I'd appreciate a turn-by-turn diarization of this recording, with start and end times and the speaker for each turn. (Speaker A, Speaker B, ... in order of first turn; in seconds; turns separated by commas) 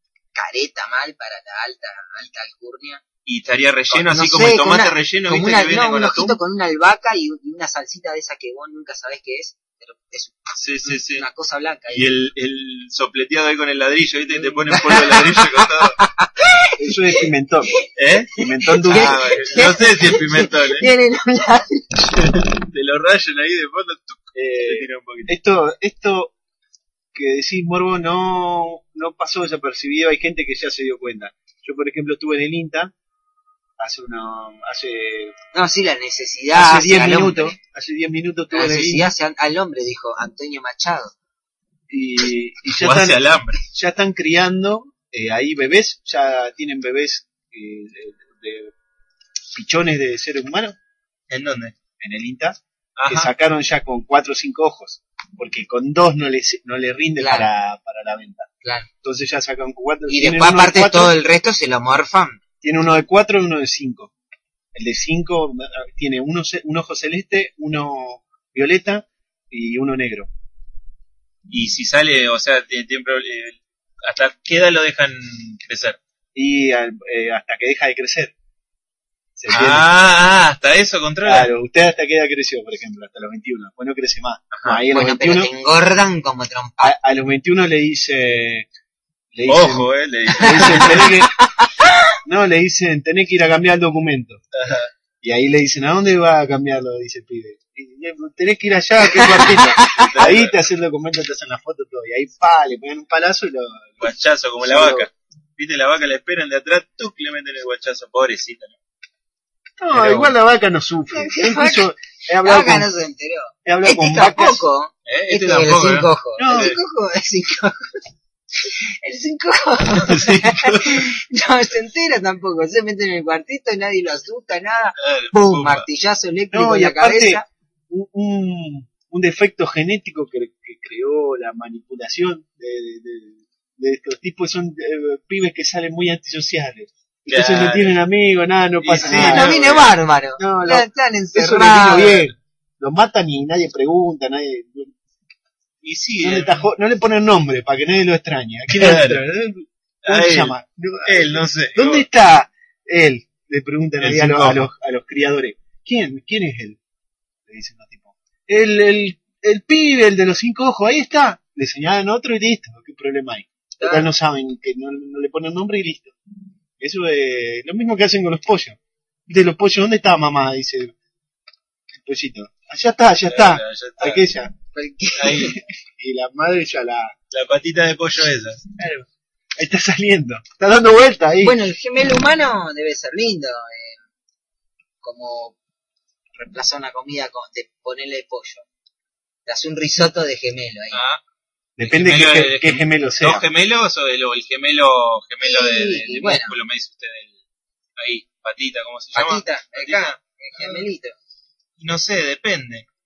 Speaker A: 0.3-3.0, Speaker B: 3.2-6.4, Speaker A: 3.9-10.6, Speaker B: 10.6-11.2, Speaker A: 11.1-12.1, Speaker B: 11.9-16.0, Speaker A: 14.7-17.2, Speaker C: 16.8-17.8, Speaker B: 17.9-20.9, Speaker A: 18.4-22.1, Speaker C: 18.4-19.6, Speaker B: 22.1-25.3, Speaker C: 24.3-26.3, Speaker C: 27.1-32.9, Speaker C: 33.8-35.3, Speaker A: 35.5-37.5, Speaker C: 36.5-39.1, Speaker A: 38.5-41.1, Speaker C: 41.9-48.7, Speaker B: 42.8-43.6, Speaker C: 49.5-50.8, Speaker B: 51.3-51.8, Speaker C: 52.0-58.5, Speaker B: 53.0-53.3, Speaker A: 57.2-57.5, Speaker A: 58.6-58.9, Speaker C: 59.0-61.2, Speaker A: 60.1-62.4, Speaker C: 62.6-64.1, Speaker C: 64.7-70.3, Speaker B: 71.5-76.0, Speaker C: 76.3-78.3, Speaker C: 79.3-79.9, Speaker B: 79.5-81.5, Speaker C: 81.2-85.5, Speaker B: 84.5-84.8, Speaker A: 84.9-86.9, Speaker C: 86.8-88.7, Speaker C: 89.3-91.3, Speaker B: 89.5-91.1, Speaker A: 90.4-92.0, Speaker C: 92.2-94.4, Speaker B: 94.5-94.9, Speaker C: 95.2-105.1, Speaker A: 99.2-100.0, Speaker B: 99.8-100.5, Speaker B: 104.0-108.8, Speaker C: 109.8-112.9, Speaker B: 109.9-110.3, Speaker A: 111.1-111.9, Speaker A: 112.4-118.0, Speaker C: 113.7-114.6, Speaker B: 115.0-116.8, Speaker C: 116.4-116.7, Speaker A: 118.6-127.4, Speaker B: 120.0-121.1, Speaker B: 125.0-125.9, Speaker C: 126.5-139.6, Speaker B: 137.3-138.0, Speaker B: 138.8-140.0, Speaker A: 139.0-142.3, Speaker C: 140.4-144.9, Speaker B: 145.8-146.7, Speaker C: 146.2-156.8, Speaker B: 148.7-149.2, Speaker B: 150.0-152.1, Speaker B: 154.0-154.7, Speaker C: 157.5-166.1, Speaker A: 163.8-164.0, Speaker C: 166.8-170.9, Speaker C: 172.0-174.5, Speaker B: 173.3-174.2, Speaker A: 174.7-175.6, Speaker B: 175.1-175.6, Speaker C: 175.9-177.1, Speaker B: 177.3-178.6, Speaker C: 178.8-179.1, Speaker C: 179.6-181.6, Speaker A: 181.4-184.0, Speaker A: 185.0-185.6, Speaker A: 186.3-188.7, Speaker A: 189.4-191.0, Speaker B: 190.9-191.2, Speaker C: 191.8-193.4, Speaker B: 191.8-197.3, Speaker A: 195.4-196.6, Speaker B: 198.0-200.8, Speaker A: 199.1-201.1, Speaker B: 201.8-202.8